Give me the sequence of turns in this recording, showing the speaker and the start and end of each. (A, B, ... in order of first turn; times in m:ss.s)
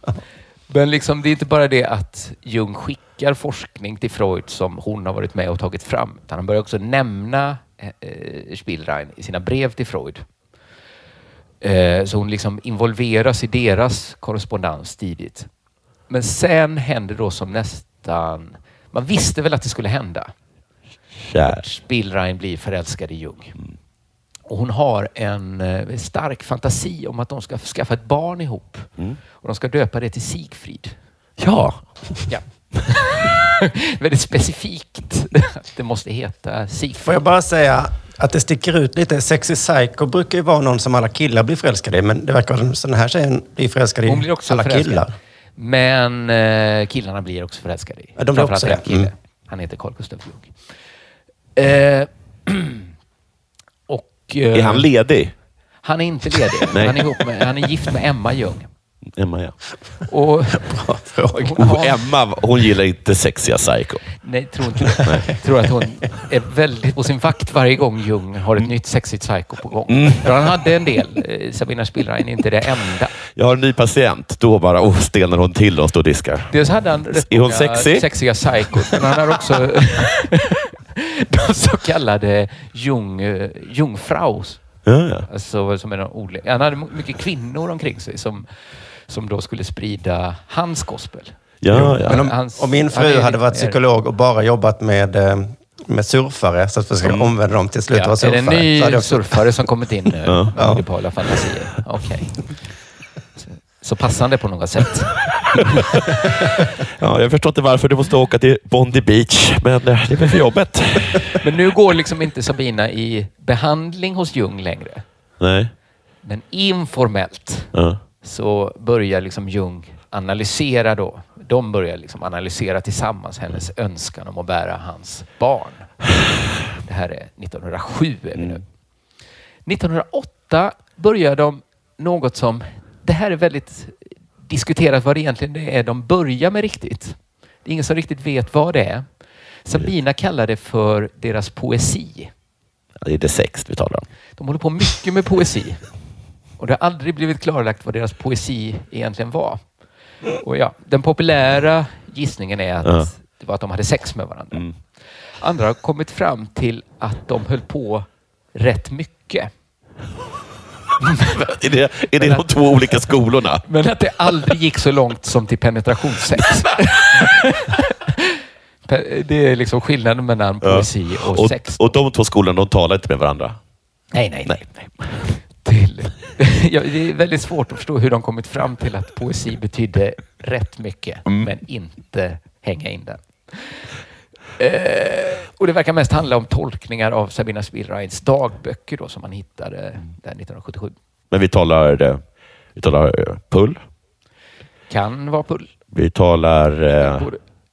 0:00.7-0:10.2 A
0:11.6-0:15.5 A
0:16.1-0:20.3 A
0:21.2-0:21.6 B
0:21.5-0:23.6 A
0:24.5-0:31.0 A
0:31.4-0:32.3 B
0:32.3-0:37.2 A
0:37.0-0:45.1 C
0:44.1-0:50.6 A
0:48.2-0:49.1 C
0:51.6-0:52.9 A
0:53.9-0:54.9 A
0:54.5-0:55.3 B
0:55.8-0:58.7 A
0:56.7-0:57.0 B
0:59.1-0:59.6 B
1:00.1-1:02.1 A
1:00.5-1:01.5 C
1:01.6-1:04.1 B
1:04.2-1:13.1 A
1:05.0-1:05.3 B
1:09.9-1:10.3 B
1:13.3-1:16.6 B
1:16.5-1:24.7 A
1:17.1-1:18.1 B
1:24.8-1:25.3 B
1:25.3-1:28.5 A
1:29.0-1:33.8 A
1:31.6-1:32.3 B
1:31.7-1:39.5 C
1:37.0-1:37.3 B
1:37.9-1:42.4 A
1:40.3-1:40.5 B
1:40.6-1:40.8 C
1:43.4-1:45.8 A
1:47.0-1:51.4 B
1:51.3-1:55.0 A
1:55.4-1:55.7 B
1:56.2-2:06.0 A
1:57.7-1:58.0 B
2:06.8-2:08.6 A
2:09.6-2:19.1 A
2:19.6-2:22.3 A
2:23.0-2:24.1 B
2:24.4-2:25.8 A
2:26.6-2:29.6 A
2:30.4-2:34.7 A
2:35.4-2:39.5 A
2:41.0-2:41.4 A
2:41.3-2:43.6 B
2:42.2-2:42.5 A
2:43.7-2:52.0 A
2:50.6-2:53.6 B
2:54.1-3:03.9 A
2:54.5-2:55.2 B
3:04.6-3:11.0 A
3:11.3-3:12.2 B
3:12.8-3:13.8 B
3:14.9-3:15.7 A
3:15.9-3:17.3 B
3:17.0-3:17.4 A